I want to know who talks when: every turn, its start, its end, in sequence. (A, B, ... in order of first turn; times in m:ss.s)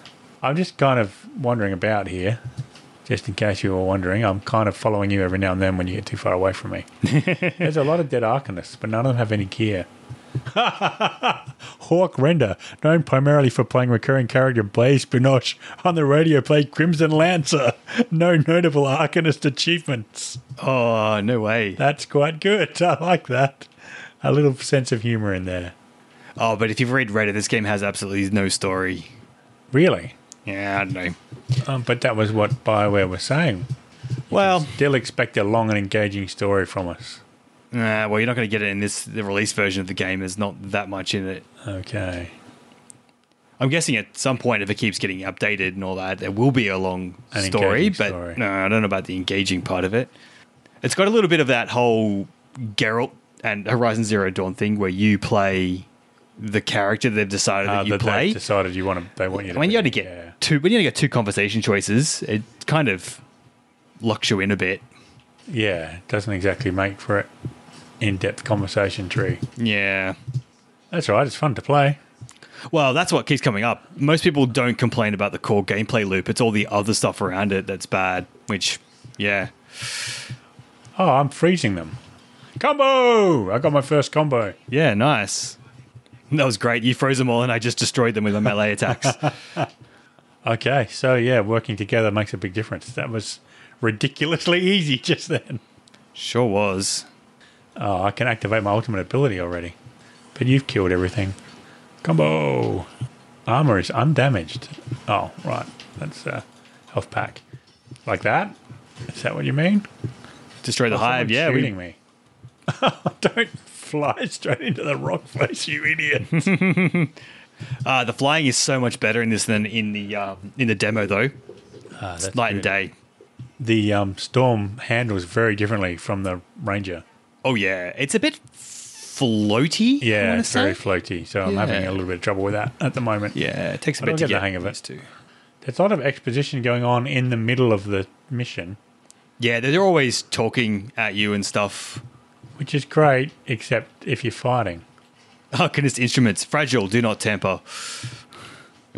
0:00.4-0:02.4 A
0:03.1-0:06.9 A
0:07.0-0:07.7 B
0:07.4-0:09.9 A
0:10.5-0:20.4 A
0:20.6-0:21.8 B
0:21.8-0:23.7 A
0:24.2-0:25.7 A
0:26.4-0:29.1 B
0:29.7-0:30.2 A
0:30.5-0:31.2 B
0:31.6-0:33.7 A
0:34.3-0:37.2 A
0:34.3-0:34.8 B
0:37.7-0:41.4 B
0:41.6-0:42.3 A
0:43.6-0:50.1 B
0:47.3-0:48.4 A
0:50.8-0:58.4 B
0:57.6-1:00.4 A
0:59.3-1:03.2 B
1:04.0-1:04.8 B
1:05.5-1:07.3 A
1:08.0-1:09.4 A
1:09.6-1:10.2 B
1:10.9-1:12.0 A
1:12.7-1:20.2 B
1:21.0-1:22.0 A
1:22.6-1:24.6 A
1:24.7-1:25.6 B
1:26.3-1:29.3 B
1:29.0-1:29.7 A
1:30.4-1:35.6 A
1:36.2-1:37.1 B
1:37.8-1:39.8 A
1:40.4-1:41.4 A
1:42.0-1:42.9 A
1:43.5-1:47.4 A
1:48.1-1:48.6 A
1:49.1-1:49.9 A
1:50.6-1:51.7 B
1:50.9-1:52.0 A
1:52.7-1:56.5 A
1:56.3-1:57.2 B
1:57.8-2:01.3 B
2:02.0-2:02.7 A
2:02.2-2:02.9 B
2:03.6-2:07.0 A
2:07.4-2:10.8 B
2:10.0-2:13.4 A
2:11.4-2:12.0 B
2:13.3-2:15.1 B
2:14.0-2:14.8 A
2:15.6-2:18.8 A
2:19.4-2:22.0 B
2:22.6-2:24.8 A
2:25.5-2:28.2 B